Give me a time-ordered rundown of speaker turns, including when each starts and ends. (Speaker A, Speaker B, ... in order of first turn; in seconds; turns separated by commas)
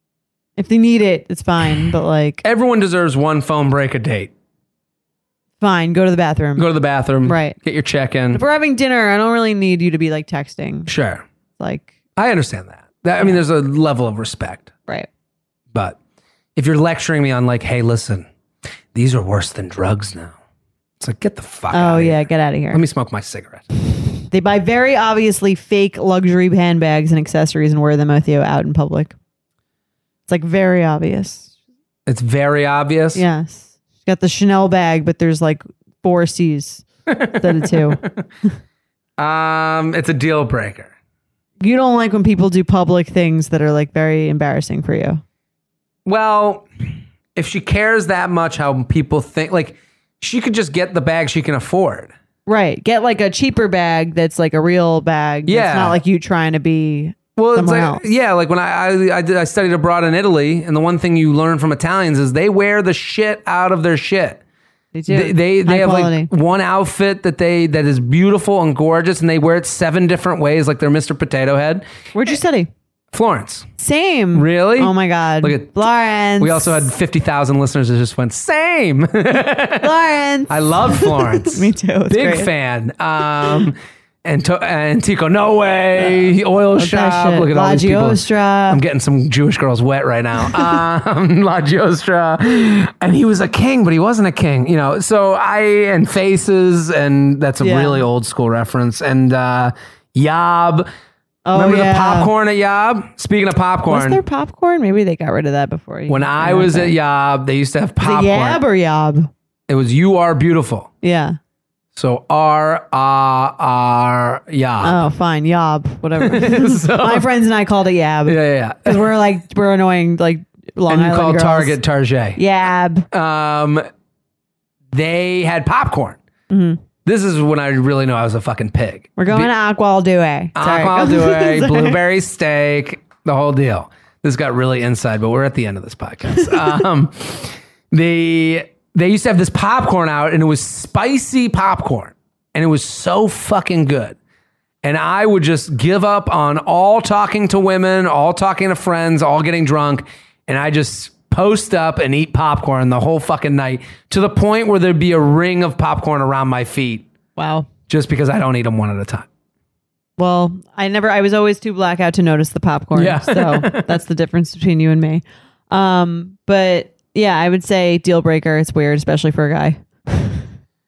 Speaker A: 0.6-2.4, Speaker B: 2.4-4.3, Speaker A: 5.6-6.7, Speaker B: 6.5-8.4, Speaker A: 7.2-7.5, Speaker A: 8.3-10.9, Speaker B: 10.9-11.2, Speaker A: 11.6-11.9, Speaker B: 12.2-14.7, Speaker B: 15.7-16.0, Speaker B: 16.6-18.3, Speaker B: 18.9-20.3, Speaker B: 21.0-23.6, Speaker A: 21.7-22.8, Speaker A: 24.3-29.1, Speaker A: 30.3-31.5, Speaker B: 32.0-33.2, Speaker A: 33.1-38.0, Speaker B: 37.1-38.0, Speaker B: 39.2-40.9, Speaker A: 41.6-45.2, Speaker B: 46.0-52.1, Speaker A: 52.5-58.0, Speaker B: 55.5-56.0, Speaker B: 57.4-64.4, Speaker A: 64.9-66.3, Speaker B: 65.1-71.8, Speaker A: 72.1-72.7, Speaker B: 73.1-73.7, Speaker A: 73.8-76.8, Speaker B: 74.3-75.8, Speaker B: 76.4-80.0, Speaker A: 79.8-82.5, Speaker B: 80.5-100.9, Speaker A: 86.0-88.8, Speaker A: 90.5-90.8, Speaker A: 97.6-98.0, Speaker A: 101.4-102.3, Speaker B: 101.5-104.2, Speaker A: 103.9-106.9, Speaker B: 106.1-108.6, Speaker A: 108.0-109.3, Speaker B: 109.7-110.9, Speaker A: 111.0-111.4, Speaker B: 111.9-115.0, Speaker A: 114.8-121.8, Speaker B: 116.2-117.3, Speaker B: 118.2-119.1, Speaker B: 120.9-122.4, Speaker A: 122.3-123.1, Speaker B: 123.1-123.8, Speaker B: 124.9-126.2, Speaker A: 126.5-126.8, Speaker B: 127.0-129.5, Speaker A: 129.2-132.0, Speaker B: 130.5-144.2, Speaker B: 144.8-157.1, Speaker A: 157.4-157.7, Speaker B: 157.9-159.3, Speaker A: 160.2-170.5, Speaker B: 162.9-163.9